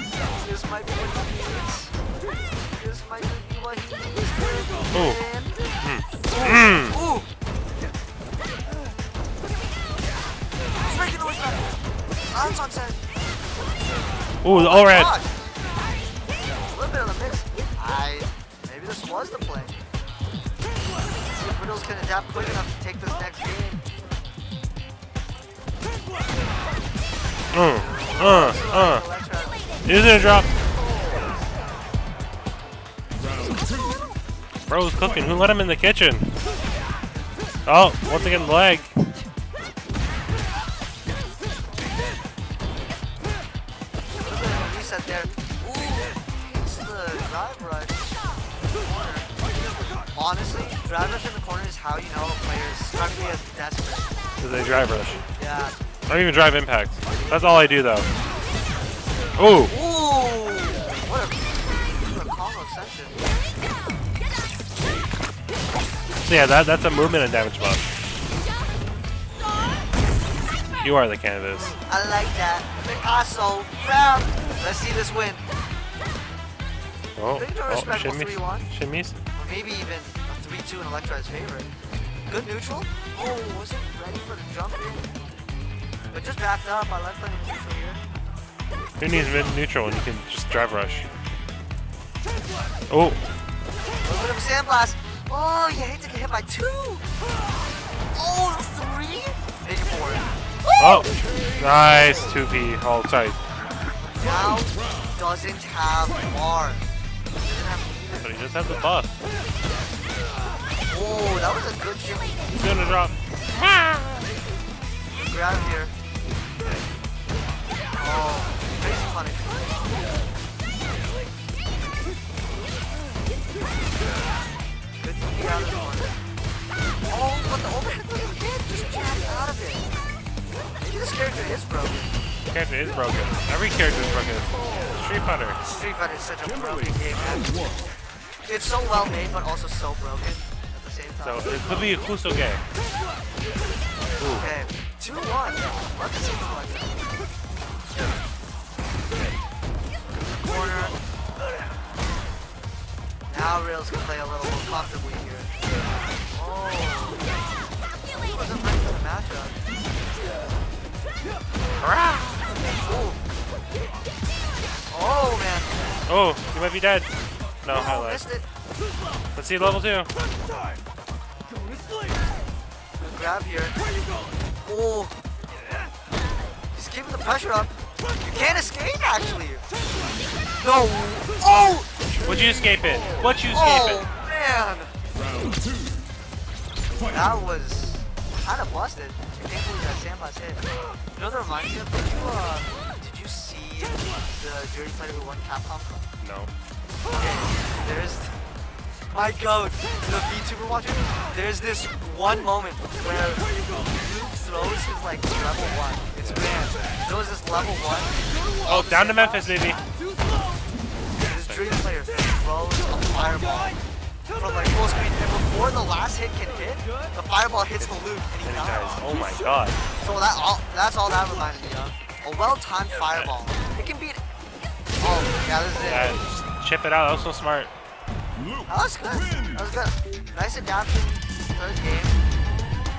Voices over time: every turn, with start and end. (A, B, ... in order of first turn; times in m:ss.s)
0:00.2-0:01.9 A
0:02.7-0:05.6 A
0:04.9-0:05.2 B
0:05.8-0:07.0 B
0:06.3-0:07.3 A
0:10.8-0:13.0 A
0:14.4-0:15.2 B
0:14.5-0:15.3 A
0:16.6-0:19.8 A
0:21.3-0:23.8 A
0:27.5-0:29.0 B
0:27.6-0:29.7 A
0:29.8-0:30.5 B
0:34.7-0:36.3 B
0:37.7-0:39.0 B
0:44.2-0:48.0 A
0:48.8-0:49.3 A
0:50.1-0:54.1 A
0:54.4-0:55.2 B
0:55.4-0:55.8 A
0:56.1-0:58.1 B
0:59.4-0:59.8 B
0:59.7-1:03.2 A
1:06.2-1:07.8 B
1:10.8-1:11.8 B
1:11.9-1:15.4 A
1:17.2-1:19.2 B
1:17.3-1:18.7 A
1:19.4-1:21.7 A
1:22.3-1:25.1 A
1:26.1-1:28.0 A
1:29.0-1:31.1 B
1:32.9-1:33.2 B
1:34.0-1:37.0 A
1:38.1-1:41.1 A
1:40.8-1:43.4 B
1:44.0-1:46.9 A
1:47.4-1:48.4 A
1:48.1-1:49.1 B
1:50.9-1:52.6 A
1:52.5-1:54.4 B
1:55.1-1:55.9 A
1:58.0-1:59.9 A
2:05.0-2:06.2 A
2:07.1-2:09.9 A
2:10.8-2:12.1 A
2:12.5-2:15.6 B
2:15.7-2:17.5 A
2:18.5-2:21.9 A
2:21.2-2:22.6 B
2:24.2-2:24.5 B
2:24.3-2:27.1 A
2:30.2-2:31.0 A
2:33.3-2:35.5 A
2:36.3-2:37.2 A
2:38.1-2:39.6 A
2:41.8-2:42.6 B
2:42.8-2:43.2 A
2:44.9-2:45.8 A
2:46.1-2:47.1 B
2:47.6-2:48.2 B
2:47.7-2:48.5 A
2:49.4-2:50.1 B
2:53.0-2:53.8 A
2:54.6-2:55.2 A
2:56.7-2:59.6 A
3:00.6-3:01.9 A
3:02.2-3:04.1 B
3:03.5-3:04.9 A
3:07.1-3:16.0 A
3:16.2-3:16.5 B
3:17.1-3:18.4 A
3:19.1-3:29.6 A
3:26.2-3:26.5 B
3:28.6-3:29.8 B
3:31.2-3:33.8 A
3:34.3-3:39.0 A
3:37.8-3:39.8 B
3:40.0-3:44.2 A
3:45.0-3:46.2 A
3:45.8-3:47.7 B
3:48.7-3:52.2 A